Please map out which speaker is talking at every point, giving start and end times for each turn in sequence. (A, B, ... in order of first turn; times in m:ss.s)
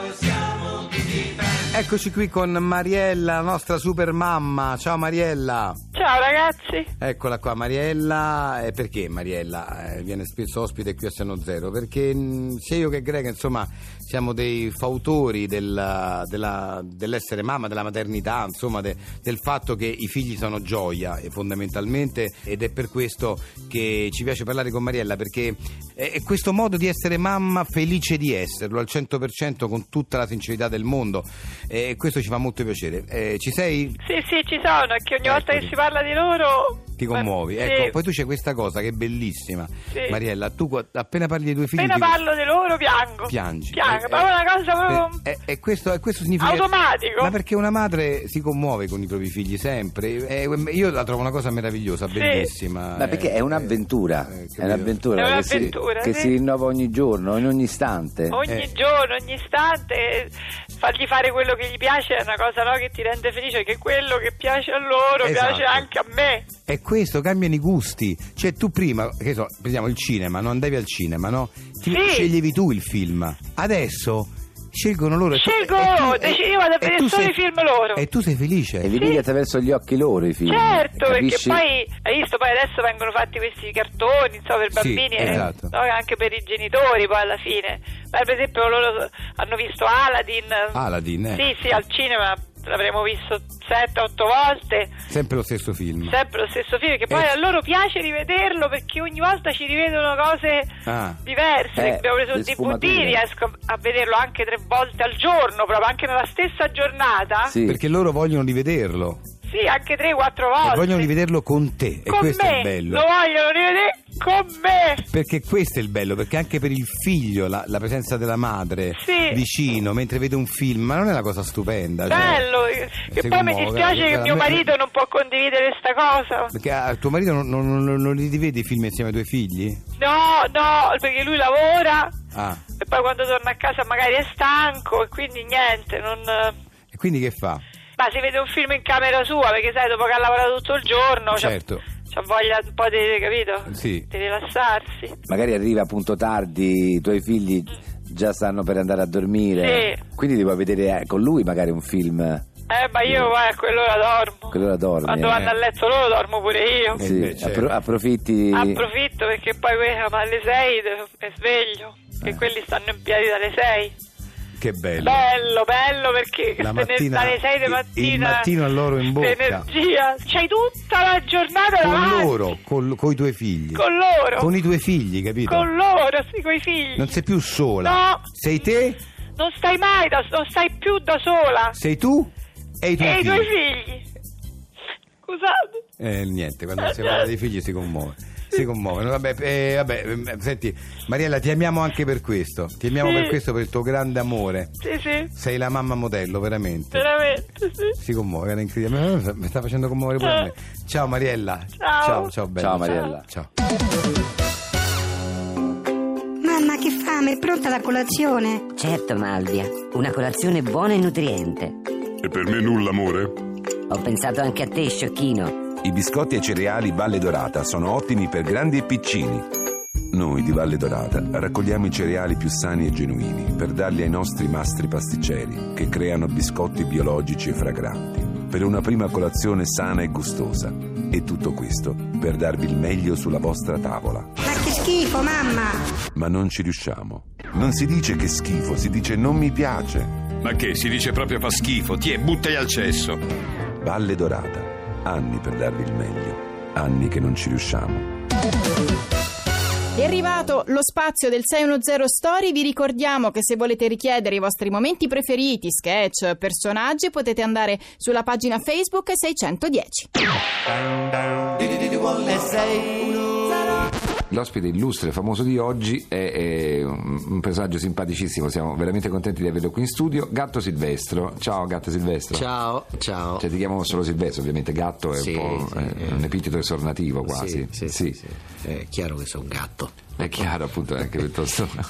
0:01.7-0:05.8 A
0:05.9-0:06.9 B
0:07.0-0:34.0 A
0:34.0-0:37.9 B
0:35.2-0:35.7 A
0:37.0-0:42.2 A
0:39.9-0:40.2 B
0:41.8-0:45.2 B
0:43.3-0:44.3 A
0:44.8-0:55.0 A
0:46.4-0:47.3 B
0:52.1-0:52.5 B
0:53.0-0:58.4 C
0:55.2-0:56.3 B
0:58.3-1:06.5 B
0:58.4-0:58.7 A
1:05.2-1:05.9 A
1:06.6-1:17.4 A
1:11.9-1:12.3 B
1:15.3-1:18.0 B
1:17.9-1:19.0 A
1:18.8-1:21.6 C
1:19.0-1:19.2 B
1:20.5-1:34.9 B
1:24.7-1:25.7 A
1:30.7-1:31.4 A
1:35.1-1:36.2 A
1:36.1-1:40.7 B
1:40.8-1:41.2 A
1:41.2-1:47.5 B
1:41.7-1:43.2 C
1:47.5-1:47.8 C
1:47.6-1:49.2 A
1:49.5-1:51.1 B
1:50.6-1:53.0 A
1:52.1-1:55.0 B
1:55.1-2:02.5 A
1:58.9-1:59.4 B
2:02.1-2:06.5 B
2:03.1-2:04.7 A
2:06.5-2:09.8 A
2:10.0-2:12.2 B
2:12.3-2:12.6 A
2:12.8-2:16.5 B
2:16.9-2:17.6 A
2:18.0-2:25.2 B
2:21.3-2:21.8 A
2:23.7-2:24.1 A
2:25.3-2:32.4 C
2:29.6-2:30.0 B
2:32.7-2:37.0 B
2:33.0-2:33.3 C
2:34.5-2:35.4 C
2:35.3-2:35.6 A
2:36.9-2:37.8 A
2:37.0-2:38.9 C
2:38.5-2:43.9 B
2:44.6-2:45.3 A
2:45.0-2:48.5 B
2:46.6-2:49.7 A
2:49.0-2:52.5 B
2:51.8-2:53.8 A
2:53.7-2:54.5 B
2:54.4-2:55.7 A
2:55.5-2:57.2 B
2:57.0-2:59.0 A
2:57.8-2:58.2 B
2:59.4-3:01.8 B
3:01.7-3:03.5 A
3:03.0-3:04.0 B
3:05.2-3:05.8 B
3:06.0-3:14.7 A
3:06.8-3:07.3 B
3:13.0-3:13.4 B
3:14.8-3:15.3 B
3:15.3-3:17.1 A
3:16.9-3:17.9 B
3:18.0-3:23.5 A
3:20.2-3:20.5 B
3:21.8-3:23.2 B
3:22.6-3:23.3 C
3:26.4-3:28.6 D
3:28.7-3:31.8 E
3:32.2-3:33.3 F
3:33.9-3:35.6 E
3:35.8-3:39.5 F
3:40.1-3:54.3 F
3:54.4-3:55.8 D
3:56.1-4:00.2 F
4:00.4-4:03.2 G
4:03.8-4:08.0 F
4:10.0-4:20.1 H
4:24.3-4:32.5 I
4:32.3-4:33.4 J
4:33.4-4:38.2 I
4:35.2-4:36.2 J
4:37.2-4:40.1 J
4:40.2-4:41.8 I